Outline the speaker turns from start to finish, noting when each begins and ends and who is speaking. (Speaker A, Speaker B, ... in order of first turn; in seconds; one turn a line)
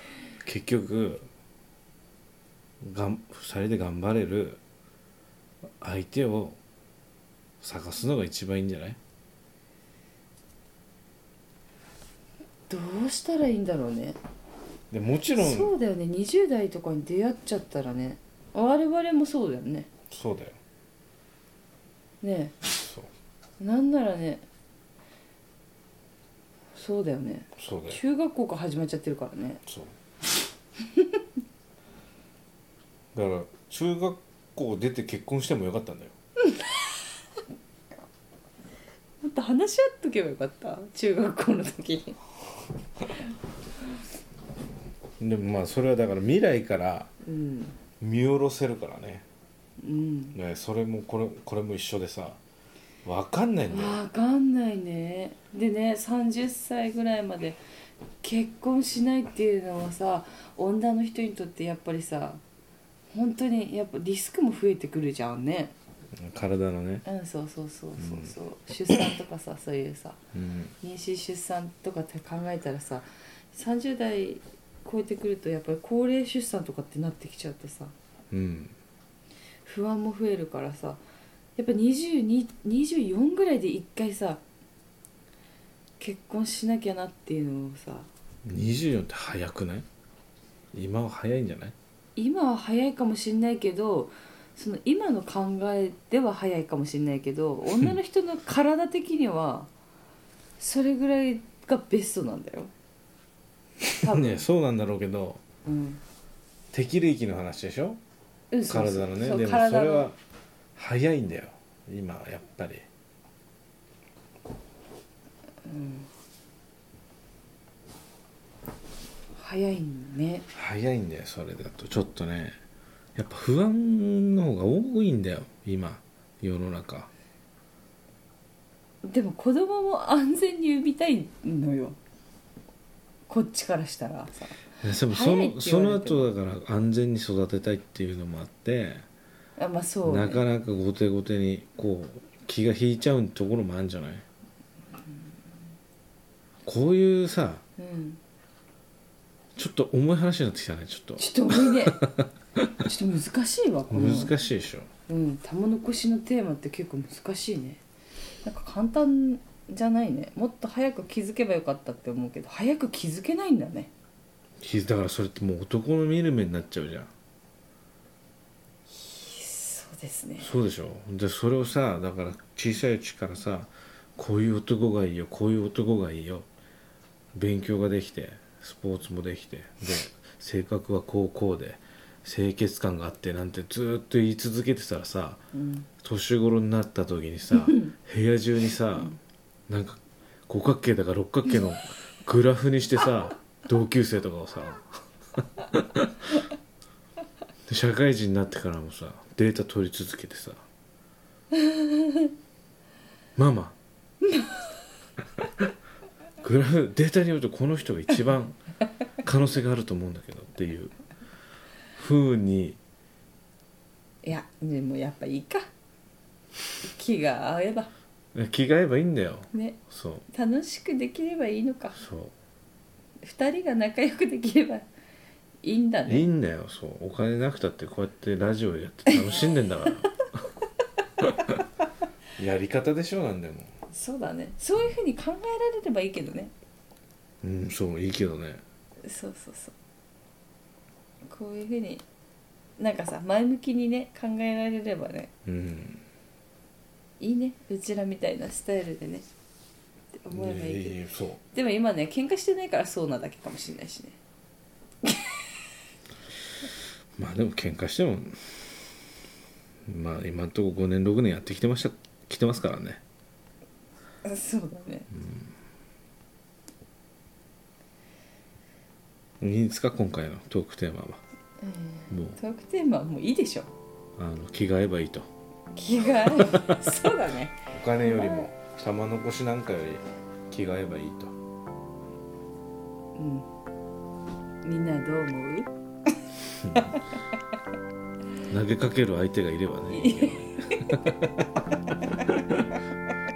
Speaker A: 0.4-1.3
Speaker A: 2.8-4.6
Speaker A: 5.8-6.6
Speaker A: 7.6-9.0
Speaker B: 12.7-14.2
Speaker A: 14.9-15.7
Speaker B: 15.3-19.9
Speaker A: 20.1-20.6
Speaker B: 22.2-22.6
Speaker A: 22.7-23.1
Speaker B: 23.6-24.4
Speaker B: 26.7-29.6
Speaker A: 27.6-28.0
Speaker A: 29.7-29.9
Speaker A: 33.1-36.1
Speaker B: 36.5-36.9
Speaker B: 39.2-42.2
Speaker A: 45.2-47.1
Speaker B: 47.2-47.8
Speaker A: 48.0-49.2
Speaker B: 49.8-50.4
Speaker A: 50.3-52.4
Speaker A: 53.0-54.0
Speaker B: 53.7-57.6
Speaker B: 58.2-62.4
Speaker B: 63.1-65.7
Speaker A: 66.2-67.0
Speaker B: 67.0-70.2
Speaker A: 68.0-68.3
Speaker A: 70.3-70.7
Speaker B: 70.8-77.9
Speaker A: 78.3-78.7
Speaker B: 79.6-81.0
Speaker B: 81.6-84.4
Speaker B: 86.0-88.1
Speaker A: 88.4-89.8
Speaker A: 90.7-91.7
Speaker B: 92.2-99.7
Speaker B: 100.6-102.7
Speaker A: 103.8-105.4
Speaker B: 104.0-104.5
Speaker B: 105.6-106.0
Speaker A: 106.7-108.0
Speaker B: 108.5-110.1
Speaker A: 108.7-110.2
Speaker A: 110.7-112.8
Speaker B: 115.6-116.1
Speaker B: 119.3-120.5
Speaker A: 120.5-122.5
Speaker A: 123.2-127.1
Speaker B: 129.0-132.0
Speaker B: 133.3-136.3
Speaker A: 134.8-139.0
Speaker B: 139.6-140.4
Speaker A: 140.0-144.2
Speaker A: 146.6-147.6
Speaker B: 147.8-148.2
Speaker A: 149.6-152.3
Speaker B: 151.2-152.0
Speaker B: 152.8-154.3
Speaker A: 153.9-154.9
Speaker B: 155.1-157.8
Speaker B: 158.4-163.9
Speaker A: 164.6-167.1
Speaker B: 168.9-170.6
Speaker A: 170.4-176.5
Speaker A: 177.3-185.4
Speaker B: 185.5-185.9
Speaker A: 186.0-189.2
Speaker B: 187.6-187.9
Speaker A: 189.7-196.1
Speaker A: 197.7-200.6
Speaker B: 201.6-202.3
Speaker A: 203.3-203.8
Speaker B: 204.3-204.6
Speaker A: 205.4-205.7
Speaker A: 206.4-208.6
Speaker A: 209.2-210.9
Speaker A: 211.9-212.8
Speaker B: 214.2-215.7
Speaker B: 216.8-217.9
Speaker A: 218.3-220.2
Speaker B: 219.5-222.0
Speaker A: 221.9-222.3
Speaker B: 223.2-224.9
Speaker B: 225.6-226.3
Speaker A: 226.1-230.2
Speaker A: 231.2-231.6
Speaker A: 232.4-233.7
Speaker B: 233.9-236.5
Speaker A: 237.4-238.6
Speaker B: 239.0-239.7
Speaker B: 241.2-242.0
Speaker B: 242.8-245.3
Speaker A: 245.4-246.0
Speaker B: 247.2-249.3
Speaker B: 250.1-251.0
Speaker A: 250.3-251.4
Speaker B: 251.5-254.2
Speaker B: 255.0-255.5
Speaker A: 257.2-258.6
Speaker A: 259.9-263.0
Speaker B: 264.2-265.1
Speaker A: 265.1-265.5
Speaker A: 269.4-271.2
Speaker B: 271.6-273.7
Speaker A: 272.1-272.4
Speaker A: 274.2-275.3
Speaker B: 275.7-278.5
Speaker A: 276.4-276.8
Speaker A: 277.7-281.3
Speaker B: 283.1-283.5
Speaker B: 284.6-285.7
Speaker A: 286.6-286.9
Speaker A: 288.5-291.7
Speaker B: 289.9-291.0